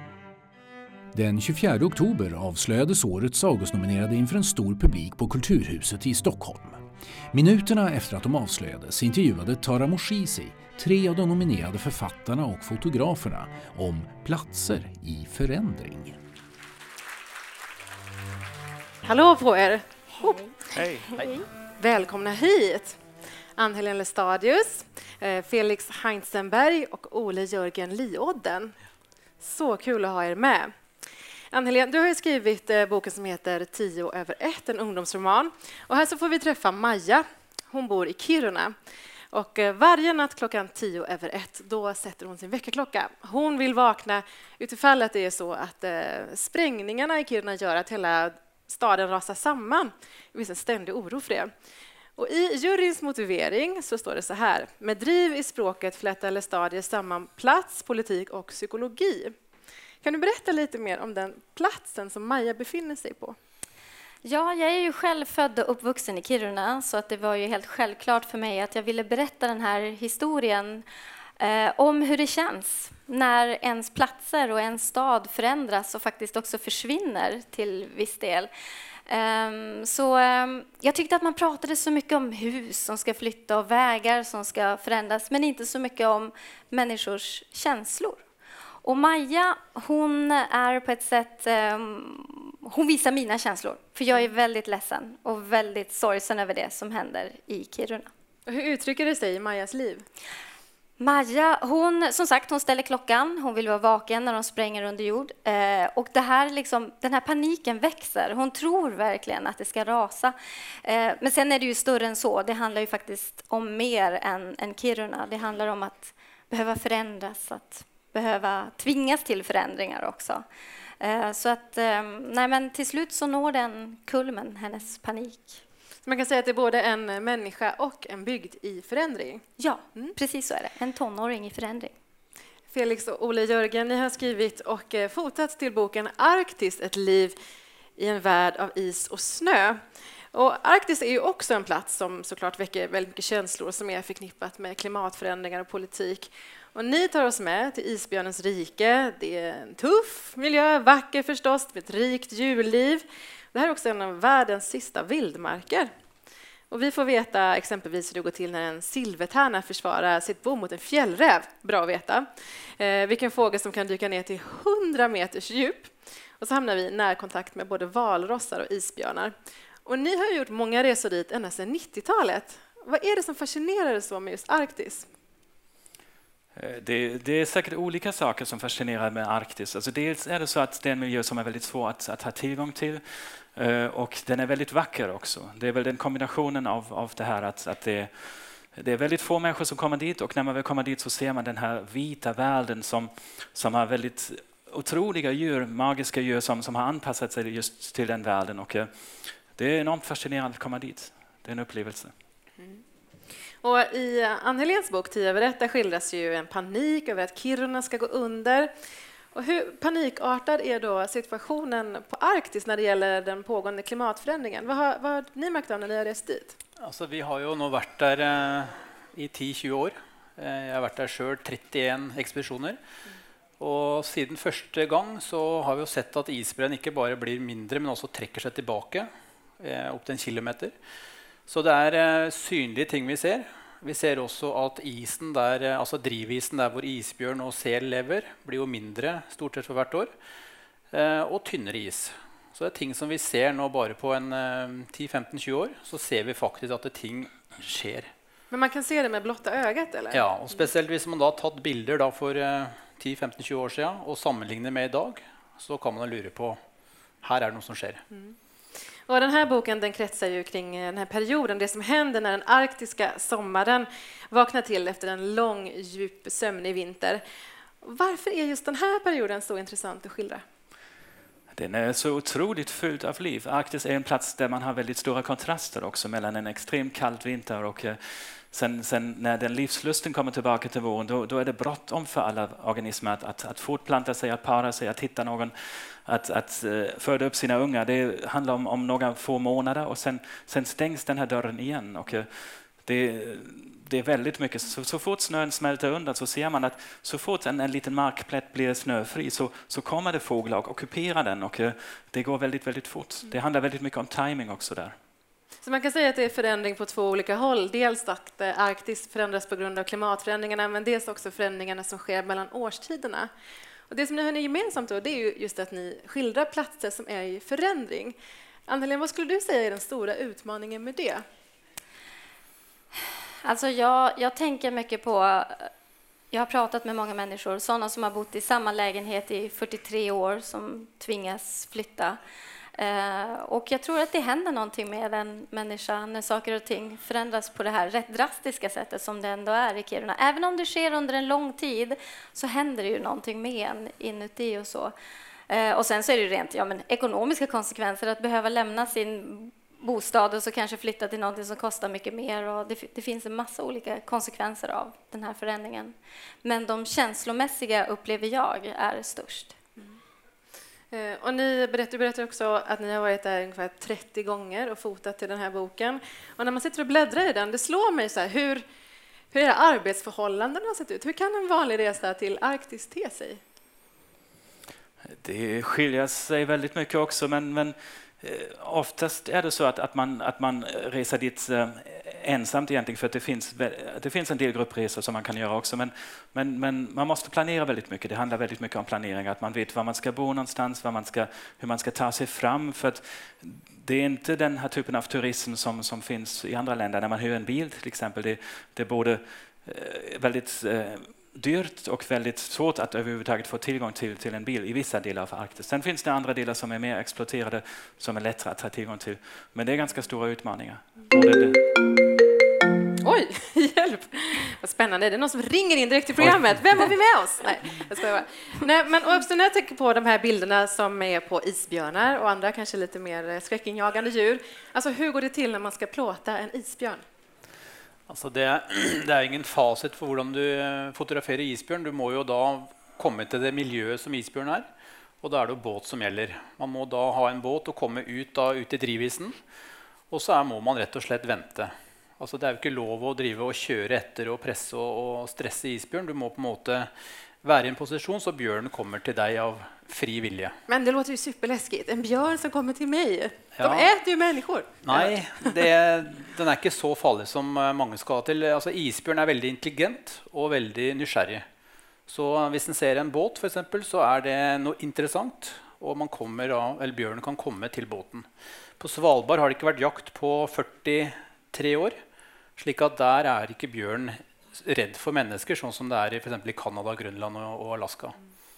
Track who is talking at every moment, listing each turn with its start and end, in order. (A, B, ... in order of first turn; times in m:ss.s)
0:01.1-0:16.2 A
0:19.0-0:20.4 B
0:20.2-0:20.5 C
0:20.7-0:21.3 D
0:21.1-0:21.4 C
0:21.8-0:23.0 B
0:23.6-0:28.7 B
0:29.4-0:30.7 B
0:31.5-0:38.7 B
0:39.3-0:51.5 B
0:52.2-0:59.3 B
1:00.0-1:03.4 B
1:04.2-1:10.8 C
1:11.4-1:18.5 C
1:19.1-1:28.2 C
1:28.8-1:38.1 C
1:38.5-1:40.0 B
1:41.0-2:00.4 C
2:01.0-2:05.6 C
2:06.0-2:09.4 B
2:09.6-2:11.9 C
2:12.7-2:17.4 B
2:18.0-2:19.8 B
2:20.3-2:35.9 B
2:36.7-2:42.3 B
2:42.8-2:49.3 B
2:49.9-2:55.1 B
2:56.6-3:22.1 D
3:23.6-3:28.7 B
3:29.3-3:36.6 B
3:36.8-3:42.8 E
3:43.6-3:49.1 E
3:49.6-3:50.7 E
3:51.5-4:00.1 E
4:00.9-4:08.1 E
4:08.5-4:10.2 B
4:10.1-4:16.6 E
4:17.2-4:18.0 E
4:19.1-4:27.2 B
4:27.8-4:30.4 B
4:31.5-5:05.0 D
5:05.6-5:13.3 B
5:13.9-5:21.2 B
5:23.4-5:25.7 C
5:26.3-5:32.2 C
5:32.8-5:44.9 C
5:45.5-5:59.5 C
6:00.9-6:08.6 B
6:09.3-6:13.4 B
6:15.1-6:51.8 D
6:53.0-7:07.0 B
7:08.1-7:14.7 E
7:15.2-7:19.4 E
7:20.1-7:26.9 E
7:27.4-7:30.6 E
7:30.7-7:35.5 B
7:33.6-7:33.9 E
7:34.8-7:41.4 E
7:42.1-7:48.3 E
7:48.8-7:52.0 E
7:52.6-7:58.2 E